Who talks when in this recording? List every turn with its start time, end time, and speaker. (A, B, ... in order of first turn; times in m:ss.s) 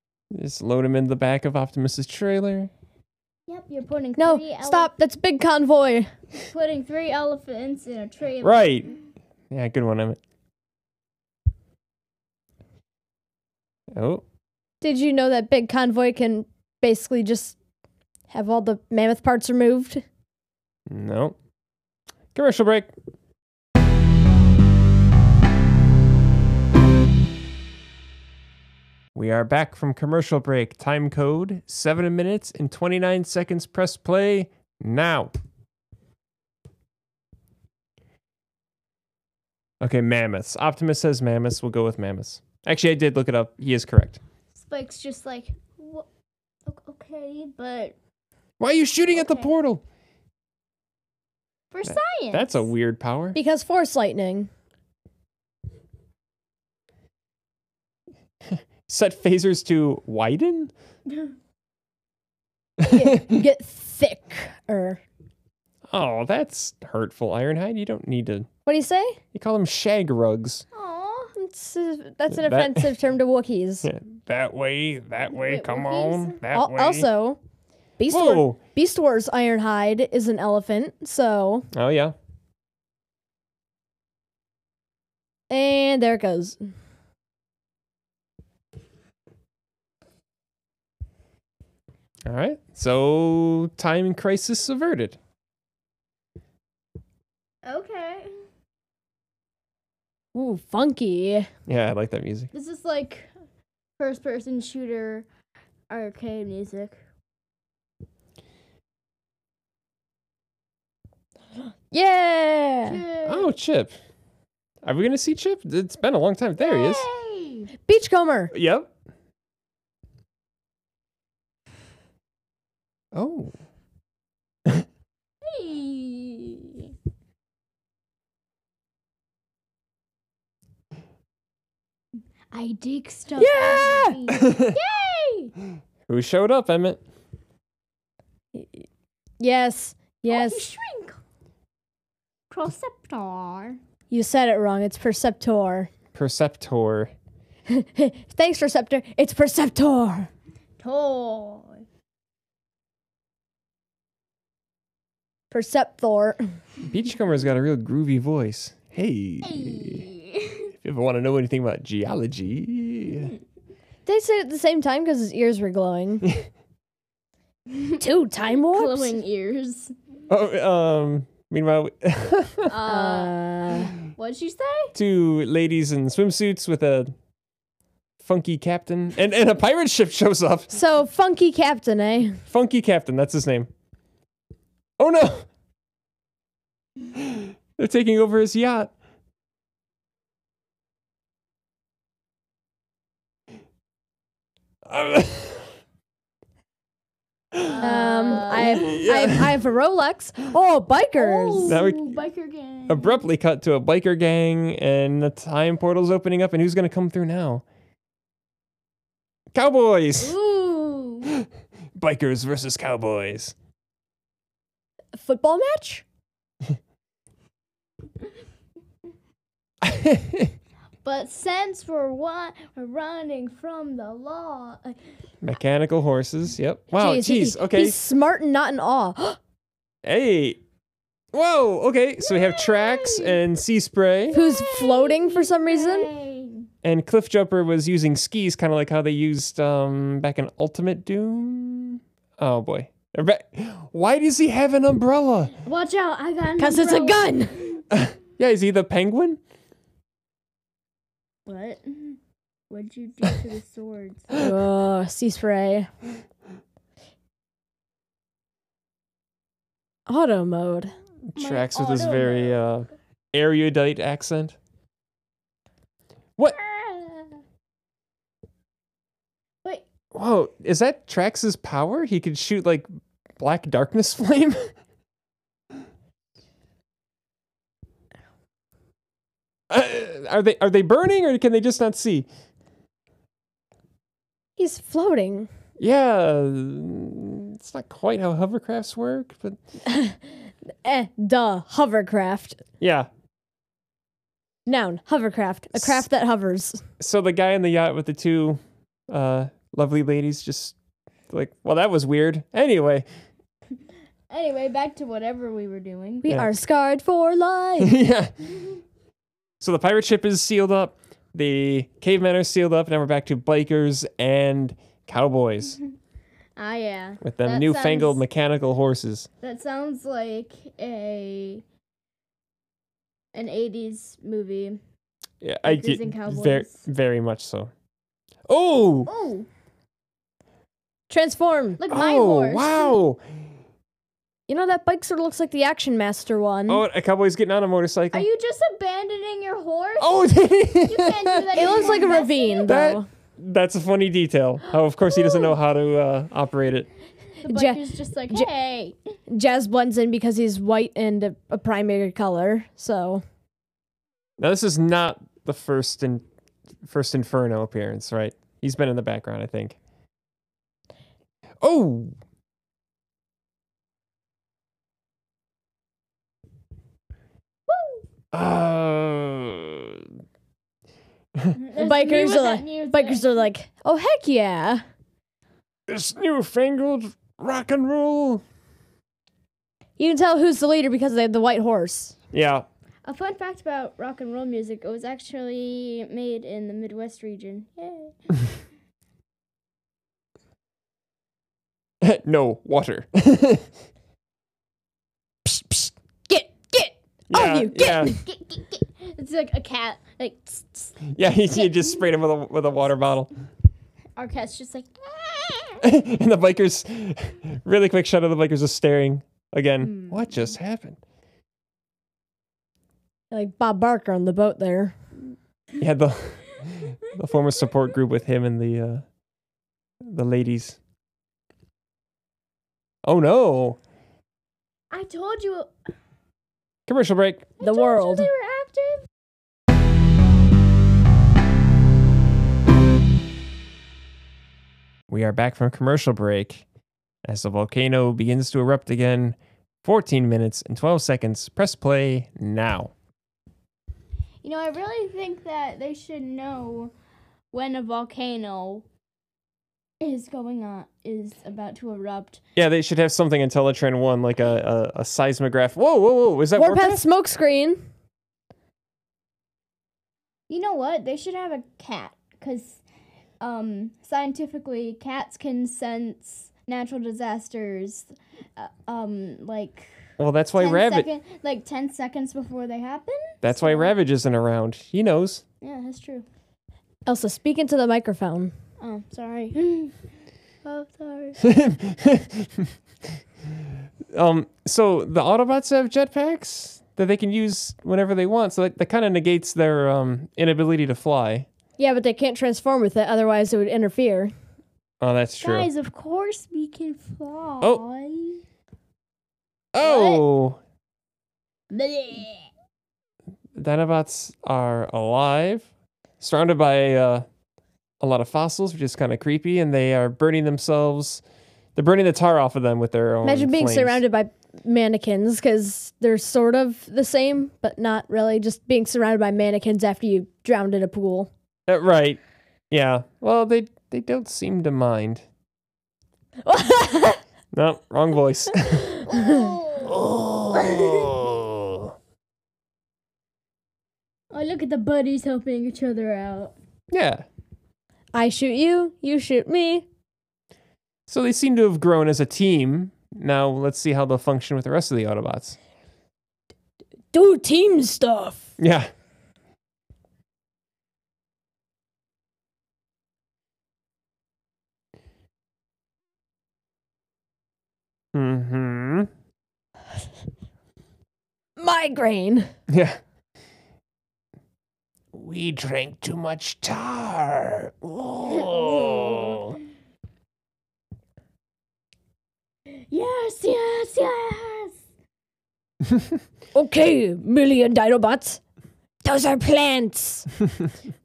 0:00.3-0:02.7 A
0:03.5-0:04.9 B
0:04.2-0:06.1 C
0:06.5-0:09.0 B
0:08.4-0:08.9 A
0:09.5-0:10.2 A
0:13.9-0:14.2 A
0:14.8-0:17.6 C
0:18.3-0:20.0 C
0:20.9-0:21.4 A
0:22.4-0:22.9 A
0:29.2-0:35.3 A
0:39.8-0:44.2 A
0:44.6-0:46.1 B
0:46.7-0:48.0 B
0:48.6-0:49.8 A
0:49.1-0:49.5 B
0:51.7-0:52.6 B
0:51.9-0:53.4 A
0:53.4-0:54.5 C
0:58.5-1:00.7 A
1:02.8-1:03.4 A
1:02.9-1:05.0 C
1:05.9-1:08.5 A
1:08.7-1:09.2 C
1:09.3-1:10.6 A
1:10.7-1:11.3 B
1:11.4-1:13.9 C
1:12.3-1:12.9 A
1:13.8-1:17.1 A
1:15.3-1:16.4 B
1:16.5-1:17.4 C
1:18.0-1:21.7 C
1:18.1-1:18.6 A
1:21.7-1:22.2 A
1:25.5-1:26.6 C
1:32.3-1:35.2 A
1:37.6-1:38.3 B
1:40.3-1:41.5 C
1:41.7-1:42.5 A
1:42.5-1:43.3 B
1:44.0-1:45.3 B
1:45.9-1:47.0 B
1:51.9-1:53.0 C
1:52.9-1:53.5 B
1:53.3-1:54.0 A
1:54.8-1:57.1 A
1:56.6-1:57.7 B
1:57.9-1:58.5 C
1:58.5-1:58.9 A
2:03.1-2:03.5 A
2:05.4-2:06.9 B
2:12.5-2:15.5 B
2:13.4-2:14.2 C
2:14.3-2:14.8 A
2:16.1-2:17.0 A
2:18.6-2:18.8 C
2:19.4-2:20.7 C
2:20.3-2:21.2 B
2:22.5-2:23.8 B
2:24.1-2:25.9 C
2:26.2-2:27.1 A
2:27.7-2:30.3 C
2:30.8-2:31.8 B
2:35.5-2:36.4 C
2:36.8-2:40.1 A
2:39.4-2:40.7 B
2:40.8-2:43.3 A
2:44.1-2:46.3 C
2:48.0-2:49.2 C
2:48.5-2:49.9 B
2:50.3-2:52.8 A
2:52.7-2:54.9 B
2:52.9-2:53.9 C
2:55.0-2:57.1 A
2:58.2-3:00.7 A
3:00.7-3:02.4 C
3:02.5-3:03.7 A
3:05.0-3:05.5 A
3:07.2-3:08.9 A
3:14.9-3:15.7 A
3:17.5-3:17.8 A
3:17.6-3:18.9 B
3:17.8-3:21.8 C
3:18.4-3:19.5 A
3:21.2-3:23.2 B
3:21.7-3:22.2 A
3:22.9-3:27.6 A
3:29.5-3:30.4 A
3:30.2-3:31.4 B
3:32.0-3:33.6 A
3:35.2-3:36.0 C
3:39.8-3:40.5 A
3:41.0-3:45.0 B
3:45.4-3:48.0 A
3:46.9-3:49.4 C
3:50.0-3:50.6 A
3:51.3-3:54.4 A
3:52.2-3:53.4 B
3:54.3-3:56.1 C
3:54.3-3:56.7 B
3:56.8-4:05.6 A
4:05.6-4:07.8 B
4:06.6-4:07.6 C
4:07.9-4:09.4 A
4:11.5-4:12.2 B
4:12.7-4:14.4 B
4:14.3-4:15.9 C
4:20.1-4:20.9 C
4:21.3-4:24.6 A
4:21.4-4:22.6 B
4:26.6-4:27.3 B
4:30.1-4:32.9 A
4:33.4-4:34.7 A
4:39.7-4:42.3 A
4:44.6-4:45.5 C
4:45.8-4:49.6 A
4:49.8-4:50.2 C
4:50.8-4:52.6 C
4:52.8-4:53.1 A
4:54.7-4:56.8 C
4:55.8-4:56.0 A
4:57.0-5:00.8 A
5:01.3-5:03.1 A
5:04.3-5:06.3 B
5:06.2-5:08.0 C
5:07.8-5:08.3 A
5:09.6-5:15.8 A
5:16.6-5:18.2 B
5:17.2-5:19.3 A
5:19.4-5:21.6 B
5:23.3-5:24.8 B
5:25.4-5:27.7 A
5:25.6-5:26.8 B
5:28.5-5:29.1 A
5:29.1-5:29.5 B
5:31.1-5:31.8 C
5:31.8-5:33.0 B
5:31.9-5:33.2 A
5:34.5-5:36.8 C
5:36.7-5:38.3 A
5:38.1-5:42.8 B
5:40.0-5:41.8 A
5:41.6-5:43.1 C
5:42.6-5:46.9 A
5:47.4-5:49.0 B
5:47.5-5:48.5 C
5:49.3-5:53.2 C
5:54.4-5:56.2 A
5:56.8-5:59.8 A
6:01.6-6:02.2 A
6:07.7-6:08.0 B
6:08.3-6:10.1 A
6:11.6-6:13.4 B
6:11.8-6:14.8 C
6:15.9-6:18.4 A
6:20.0-6:22.2 C
6:22.3-6:22.7 A
6:23.0-6:28.2 B
6:32.0-6:33.7 A
6:35.4-6:38.2 C
6:37.3-6:38.2 A
6:37.8-6:41.8 B
6:41.1-6:43.3 A
6:44.2-6:45.8 B
6:45.8-6:51.0 A
6:49.8-6:50.4 B
6:53.3-6:55.0 C
6:55.8-6:59.0 A
7:00.0-7:00.8 A
7:03.0-7:03.8 A
7:04.9-7:05.7 B
7:06.9-7:07.5 A
7:07.6-7:09.0 B
7:07.6-7:08.3 C
7:15.1-7:16.6 A
7:17.2-7:22.9 A
7:24.4-7:26.9 B
7:27.5-7:28.8 B
7:30.0-7:32.4 B
7:32.6-7:37.0 A
7:36.6-7:37.8 C
7:40.5-7:42.8 B
7:43.4-7:49.9 B
7:50.2-7:51.1 A
7:50.6-7:53.9 B
7:53.4-7:55.4 A
7:55.6-7:56.2 B
7:57.1-7:58.5 C
7:58.8-7:59.9 B
8:00.6-8:01.4 B
8:01.4-8:02.7 A
8:04.1-8:11.5 A
8:11.8-8:14.3 C
8:15.0-8:15.7 A
8:15.4-8:18.4 B
8:19.8-8:20.6 A
8:19.8-8:20.2 B
8:21.7-8:22.5 B
8:23.6-8:25.7 A
8:26.2-8:27.3 A
8:28.0-8:31.2 A
8:31.8-8:34.0 A
8:33.2-8:41.3 C
8:41.7-8:42.2 A
8:42.7-8:45.2 A
8:46.4-8:47.2 C
8:47.5-8:49.0 A
8:48.8-8:49.5 C
8:49.1-8:50.0 B
8:49.8-8:51.9 A
8:50.5-8:51.1 B
8:54.3-8:56.5 B
8:56.9-8:57.2 A
8:58.1-8:59.8 C
9:01.1-9:05.6 A
9:07.1-9:08.5 C
9:08.6-9:08.9 A
9:18.1-9:19.1 A
9:21.6-9:22.5 C
9:22.7-9:23.0 A
9:25.1-9:29.6 A
9:28.3-9:29.6 B
9:32.9-9:34.8 B
9:36.6-9:38.4 C
9:39.0-9:40.3 C